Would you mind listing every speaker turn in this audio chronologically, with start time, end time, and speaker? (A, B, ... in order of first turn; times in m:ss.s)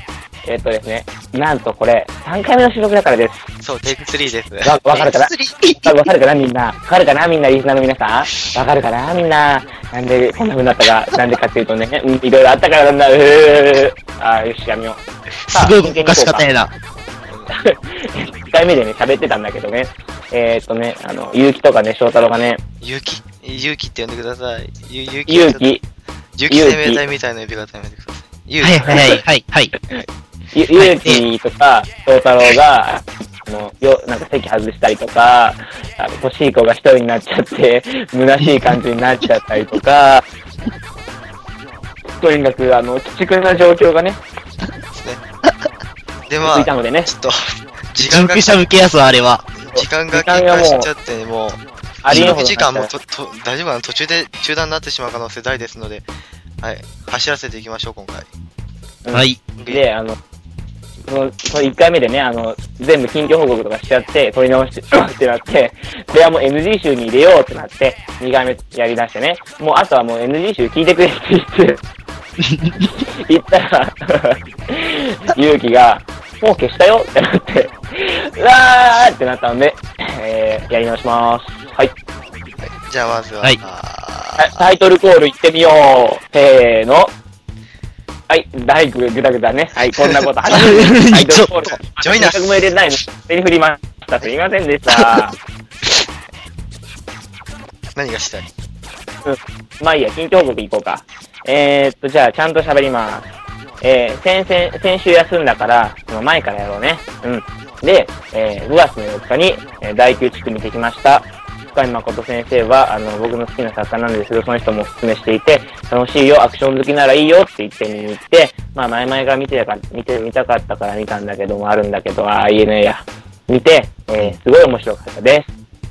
0:00.4-0:03.5 A
0:03.6-0:04.8 B
0:04.6-0:05.3 A
0:04.9-0:06.1 C
0:05.8-0:16.5 A
0:15.5-0:16.7 C
0:17.5-0:22.6 A
0:22.8-0:25.8 B
0:25.3-0:25.8 A
0:26.4-0:29.2 B
0:26.5-0:27.0 A
0:28.6-0:29.7 C
0:30.5-0:40.2 A
0:30.8-0:31.2 C
0:42.2-0:44.2 A
0:44.9-0:45.2 B
0:46.3-0:47.4 B
0:46.4-0:47.1 A
0:47.9-0:48.7 B
0:48.0-0:49.5 C
0:49.6-0:56.1 B
0:49.7-0:50.9 A
0:52.0-0:52.9 A
0:56.6-0:58.3 B
0:59.0-1:00.2 A
0:59.1-0:59.4 C
0:59.6-0:59.8 B
1:01.1-1:11.8 A
1:12.4-1:12.7 C
1:12.8-1:21.9 A
1:22.6-1:24.8 B
1:24.4-1:27.1 A
1:28.3-1:35.4 A
1:29.9-1:30.7 B
1:30.5-1:31.5 C
1:31.6-1:32.5 B
1:38.0-1:38.5 B
1:39.2-1:43.3 A
1:43.8-2:05.5 A